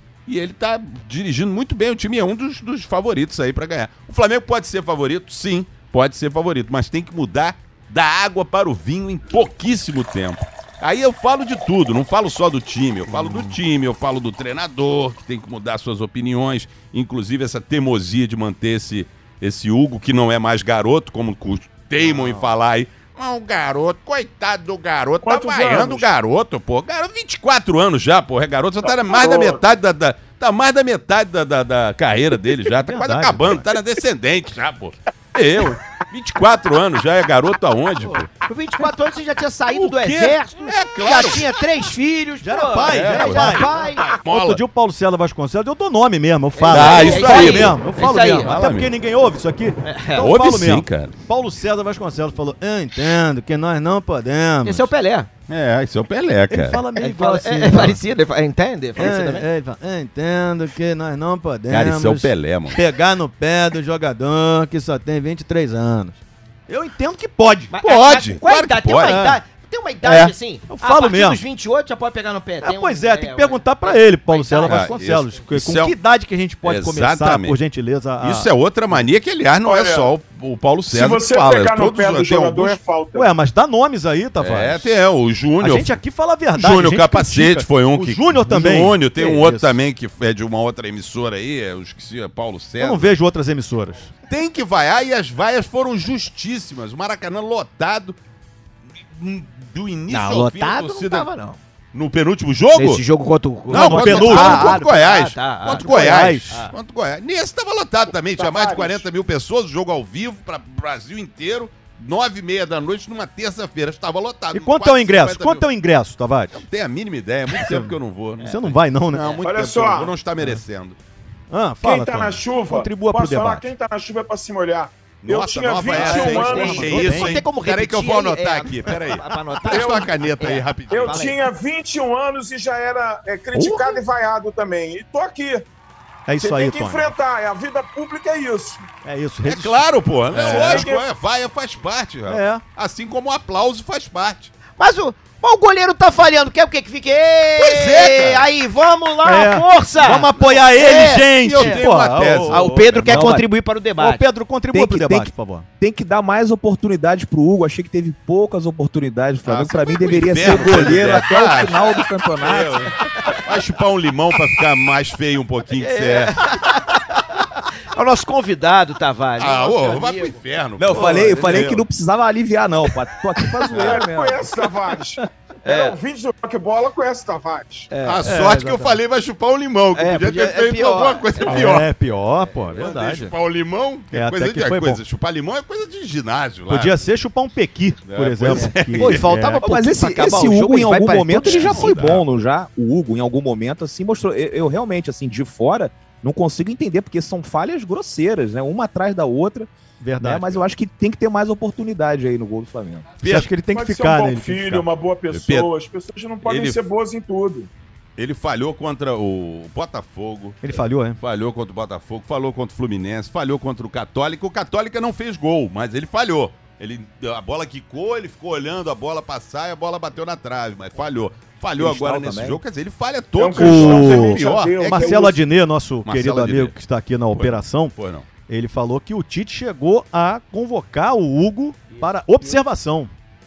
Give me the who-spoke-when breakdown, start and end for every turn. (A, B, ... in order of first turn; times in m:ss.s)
0:00.2-0:38.3 A
0:13.1-0:13.6 B
0:22.0-0:22.5 B
0:25.2-0:26.1 C
0:28.8-0:29.6 C
0:32.7-0:33.7 B
0:38.4-0:44.2 D
0:39.7-0:41.6 A
0:42.4-0:54.9 B
0:42.9-0:44.6 A
0:46.5-0:48.6 D
0:46.7-0:47.8 A
0:48.4-0:48.9 A
0:49.8-0:50.2 D
0:50.2-0:51.1 A
0:54.6-0:55.3 D
0:55.5-0:56.8 A
0:56.5-0:58.0 B
0:57.0-0:59.5 D
0:59.0-1:07.8 B
1:01.7-1:02.8 A
1:07.7-1:15.3 D
1:07.8-1:09.2 A
1:09.0-1:09.4 B
1:10.0-1:10.3 A
1:10.1-1:11.4 B
1:12.6-1:18.5 B
1:14.6-1:16.0 A
1:16.6-1:17.6 A
1:18.2-1:22.8 A
1:19.6-1:20.1 C
1:20.9-1:23.3 C
1:23.1-1:24.9 B
1:24.4-1:26.0 A
1:25.6-1:29.8 B
1:26.5-1:33.1 A
1:32.8-1:34.1 B
1:34.3-1:38.2 A
1:39.1-1:41.3 A
1:40.1-1:41.6 D
1:41.9-1:43.0 A
1:42.7-1:46.7 D
1:43.7-1:55.6 A
1:43.7-1:44.9 B
1:45.7-1:46.6 B
1:48.3-1:49.0 C
1:54.5-1:56.6 B
1:56.5-2:01.0 A
1:57.5-1:59.4 B
1:59.2-1:59.4 D
1:59.4-2:00.1 C
2:01.5-2:03.7 B
2:01.8-2:07.0 C
2:05.2-2:11.3 A
2:05.9-2:11.4 D
2:06.0-2:07.4 B
2:09.6-2:10.2 C
2:10.9-2:15.6 C
2:13.5-2:14.0 B
2:16.3-2:17.1 B
2:16.4-2:18.9 C
2:19.0-2:20.9 B
2:19.4-2:24.5 A
2:20.3-2:21.0 C
2:22.3-2:22.6 B
2:24.7-2:31.8 D
2:27.6-2:28.5 A
2:29.2-2:33.4 B
2:30.3-2:33.4 A
2:32.5-2:34.2 D
2:33.1-2:33.4 E
2:34.0-2:35.7 B
2:34.7-2:42.8 E
2:39.4-2:46.5 A
2:45.7-2:50.4 D
2:49.4-2:51.7 A
2:50.8-2:54.6 E
2:50.9-2:51.6 D
2:51.0-2:51.7 B
2:53.7-2:54.0 A
2:53.7-2:57.9 C
2:55.6-2:56.0 D
2:57.9-2:58.7 D
2:58.0-3:01.9 A
2:58.2-2:58.9 B
2:59.9-3:01.8 D
3:01.4-3:03.3 B
3:02.7-3:07.0 A
3:04.1-3:05.0 B
3:06.7-3:09.7 B
3:08.0-3:09.3 A
3:08.5-3:12.0 D
3:09.6-3:23.1 E
3:11.4-3:12.2 A
3:20.0-3:20.6 B
3:23.2-3:23.5 A
3:23.2-3:24.9 B
3:23.7-3:27.7 C
3:25.3-3:25.7 A
3:26.4-3:26.8 A
3:28.2-3:45.3 A
3:30.6-3:31.2 B
3:41.8-3:42.6 E
3:43.3-3:45.4 C
3:43.6-3:47.9 B
3:46.0-3:46.8 A
3:47.3-3:48.3 A
3:48.5-3:53.1 B